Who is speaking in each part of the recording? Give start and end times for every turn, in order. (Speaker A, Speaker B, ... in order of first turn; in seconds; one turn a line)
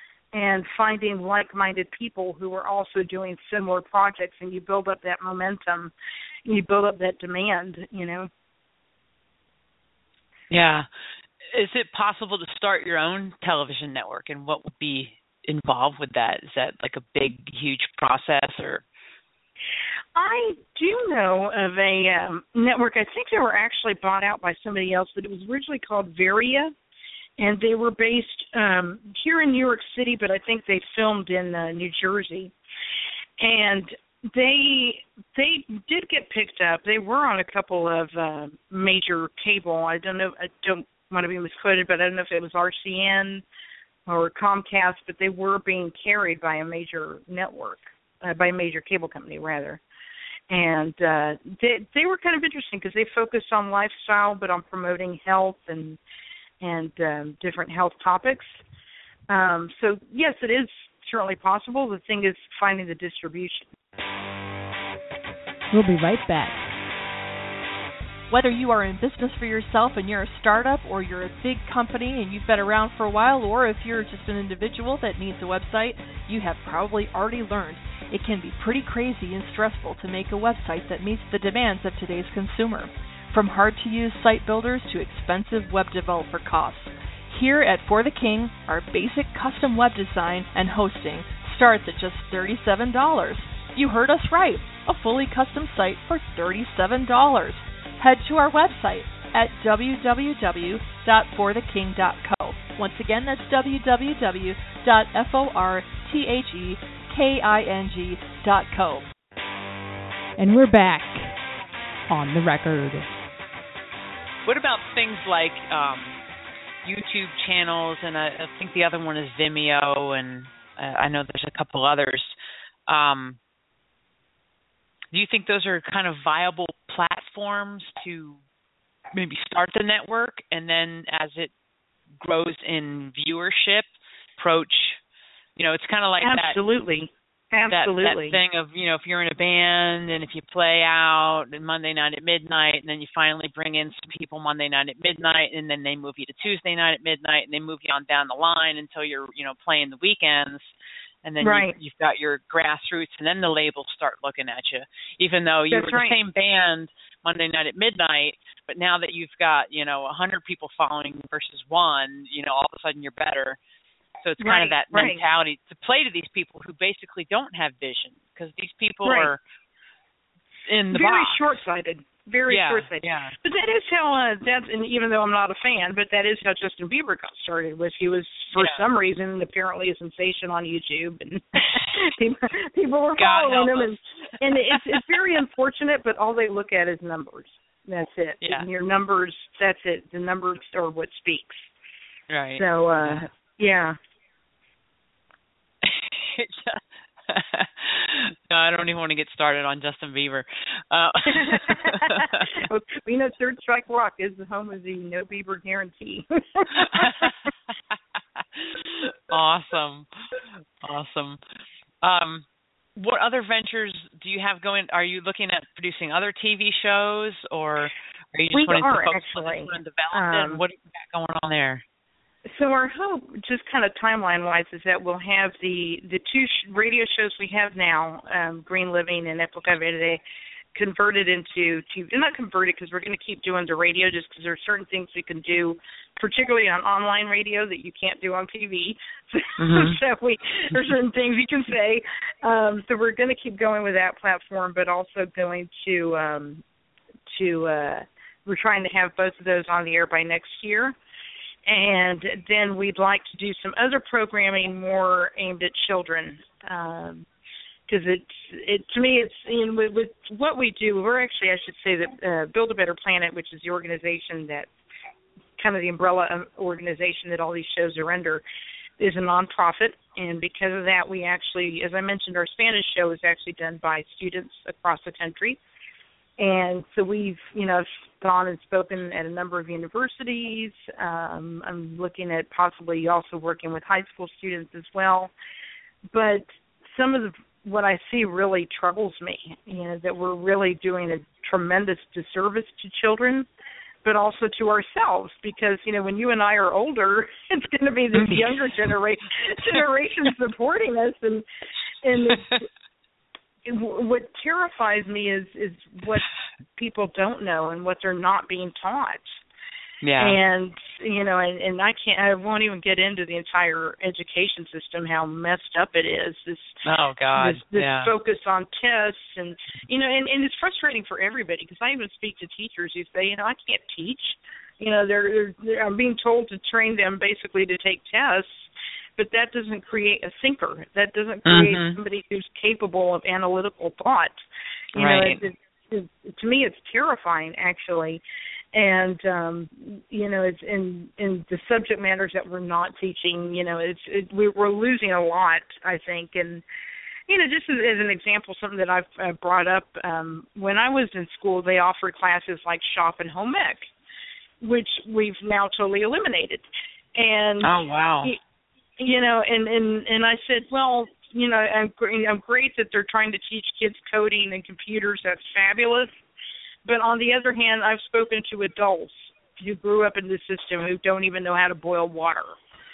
Speaker A: 0.3-5.9
Speaker A: 6.5-8.3
Speaker B: 10.5-10.9
Speaker B: 11.5-18.8
Speaker A: 20.1-26.7
Speaker A: 27.4-32.5
Speaker A: 33.4-43.4
Speaker A: 44.1-49.8
Speaker A: 50.5-56.0
Speaker A: 56.6-58.6
Speaker A: 59.3-63.7
Speaker C: 65.7-66.6
Speaker D: 68.3-109.1
Speaker C: 110.4-111.3
Speaker C: 112.1-113.2
Speaker B: 114.4-116.2
Speaker B: 116.8-122.3
Speaker B: 122.9-123.4
Speaker B: 125.1-128.4
Speaker B: 129.1-131.5
Speaker B: 132.2-135.0
Speaker B: 135.6-136.6
Speaker A: 136.2-138.4
Speaker B: 137.7-150.7
Speaker B: 151.2-163.6
Speaker A: 151.4-151.7
Speaker A: 155.7-156.2
Speaker B: 164.2-169.4
Speaker A: 164.4-165.2
Speaker A: 169.0-169.3
Speaker B: 170.7-171.4
Speaker A: 170.9-191.7
Speaker B: 172.5-173.3
Speaker B: 183.2-184.0
Speaker B: 184.7-185.2
Speaker B: 192.3-193.2
Speaker A: 192.6-194.0
Speaker B: 195.8-202.6
Speaker A: 201.3-207.3
Speaker B: 206.8-207.4
Speaker B: 208.4-210.1
Speaker B: 210.8-211.4
Speaker B: 212.0-212.4
Speaker B: 212.9-221.8
Speaker A: 218.5-220.6
Speaker A: 222.5-230.2
Speaker A: 230.7-246.6
Speaker B: 239.6-240.0
Speaker A: 247.3-250.9
Speaker A: 251.7-257.3
Speaker A: 257.9-264.7
Speaker A: 265.6-268.4
Speaker A: 269.0-275.6
Speaker A: 276.4-285.3
Speaker A: 286.1-293.5
Speaker A: 294.1-301.4
Speaker B: 298.1-298.6
Speaker A: 302.0-302.7
Speaker B: 302.3-302.6
Speaker A: 303.6-309.4
Speaker B: 310.0-310.4
Speaker A: 310.2-316.8
Speaker B: 316.9-318.1
Speaker A: 317.4-334.4
Speaker B: 331.4-332.0
Speaker A: 334.9-338.2
Speaker B: 334.9-335.4
Speaker A: 338.7-346.6
Speaker A: 347.3-353.9
Speaker A: 354.6-357.7
Speaker B: 357.6-358.3
Speaker A: 359.0-366.2
Speaker A: 366.9-372.6